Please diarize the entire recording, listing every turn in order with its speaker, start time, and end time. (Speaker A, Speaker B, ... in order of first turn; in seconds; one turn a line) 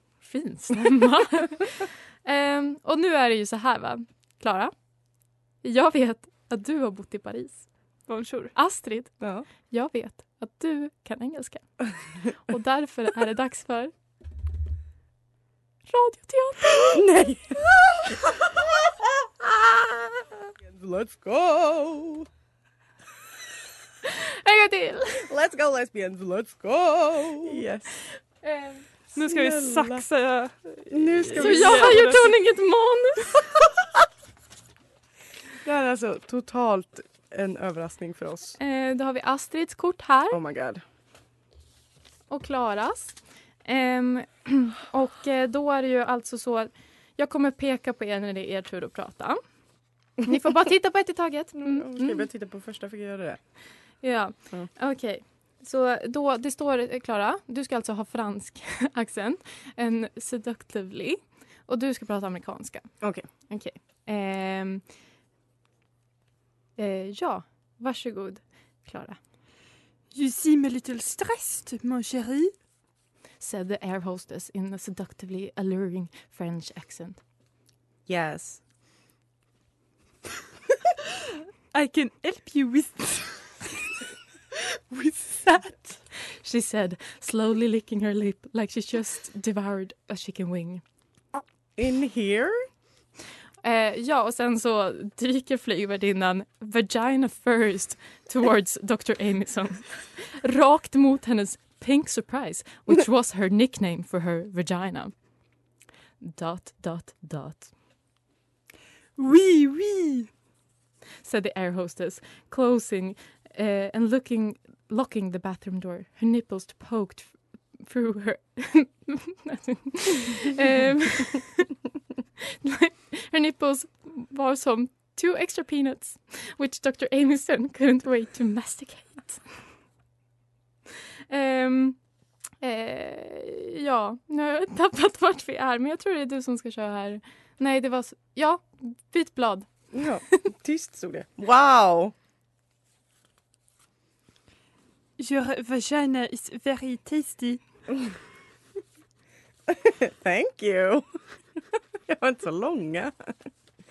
Speaker A: 0.2-4.7
Speaker A: 5.6-7.7
Speaker B: 8.1-8.5
Speaker A: 8.6-13.9
Speaker C: 9.2-9.5
Speaker A: 15.9-17.0
Speaker C: 16.9-18.1
Speaker C: 19.4-19.9
Speaker C: 20.6-22.3
Speaker A: 24.4-25.3
Speaker C: 25.2-28.0
Speaker A: 28.4-28.8
Speaker B: 29.1-32.3
Speaker C: 29.2-30.0
Speaker C: 30.9-32.3
Speaker A: 31.4-33.3
Speaker C: 35.6-38.6
Speaker A: 38.6-40.4
Speaker C: 40.3-40.8
Speaker A: 42.3-49.4
Speaker A: 50.2-52.3
Speaker C: 51.6-53.4
Speaker A: 54.0-64.9
Speaker C: 63.0-63.3
Speaker A: 66.8-69.2
Speaker B: 70.1-72.5
Speaker A: 73.4-77.2
Speaker C: 78.1-78.6
Speaker B: 81.7-83.9
Speaker B: 84.9-85.9
Speaker A: 86.1-90.8
Speaker C: 91.8-92.7
Speaker A: 93.6-105.3
Speaker A: 106.2-107.7
Speaker B: 109.2-110.3
Speaker A: 111.2-121.6
Speaker A: 122.7-129.6
Speaker A: 131.3-132.0
Speaker A: 132.6-140.1
Speaker C: 139.9-142.1
Speaker B: 145.2-147.6
Speaker C: 149.7-151.2
Speaker C: 152.1-153.5